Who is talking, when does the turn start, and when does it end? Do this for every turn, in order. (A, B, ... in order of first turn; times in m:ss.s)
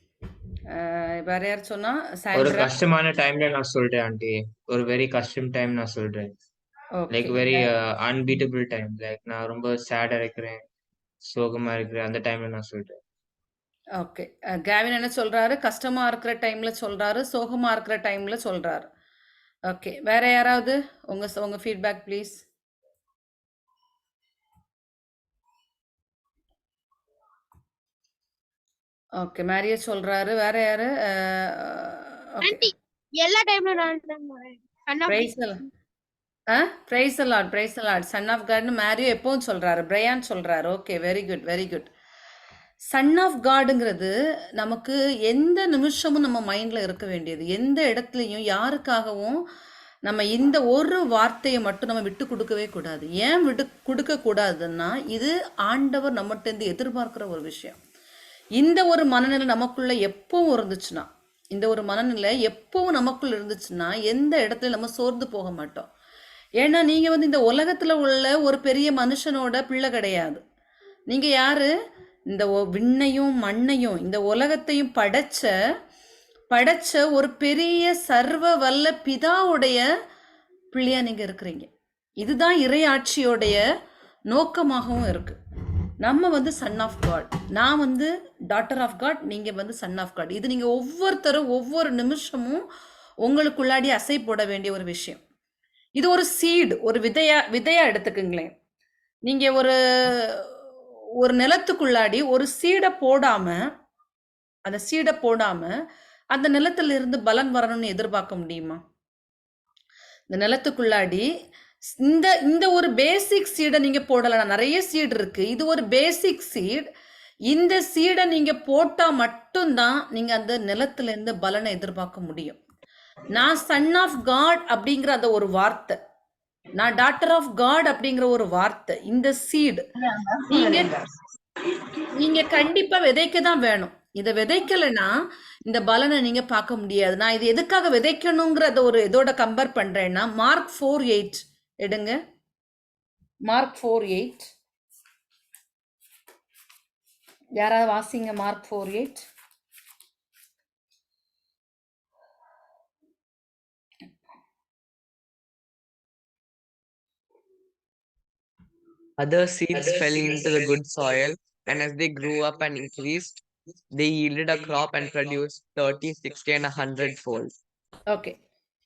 0:00.7-0:02.8 A
0:02.3-0:06.3 B
0:07.0-0:07.7 A
0:07.1-0:10.6 B
0:11.2-0:13.0 B
0:14.0-0:18.9 A
0:19.7-0:22.4 A
0:29.2-0:32.6 A
0:32.4-0:35.3 C
0:35.1-0:35.6 A
0:36.5-0:41.9 A
0:42.9-0:49.4 A
0:50.0-0:57.8 A
0:58.6-1:05.9 A
1:06.6-1:10.4 A
1:11.1-1:11.7 A
1:12.3-1:15.5 A
1:16.5-1:19.8 A
1:20.7-1:21.7 A
1:22.2-1:23.6 A
1:24.3-1:25.4 A
1:26.0-1:32.6 A
1:33.2-1:35.2 A
1:36.0-1:38.5 A
1:39.3-1:40.5 A
1:41.2-1:43.6 A
1:44.7-1:45.7 A
1:46.3-1:48.8 A
1:50.3-1:51.3 A
1:52.0-1:56.9 A
1:57.5-2:02.6 A
2:03.3-2:06.0 A
2:06.8-2:09.8 A
2:10.5-2:11.0 A
2:12.1-2:15.1 A
2:15.7-2:22.2 A
2:23.5-2:24.5 A
2:27.6-2:29.2 A
2:39.2-2:47.5 D
2:48.1-2:48.4 A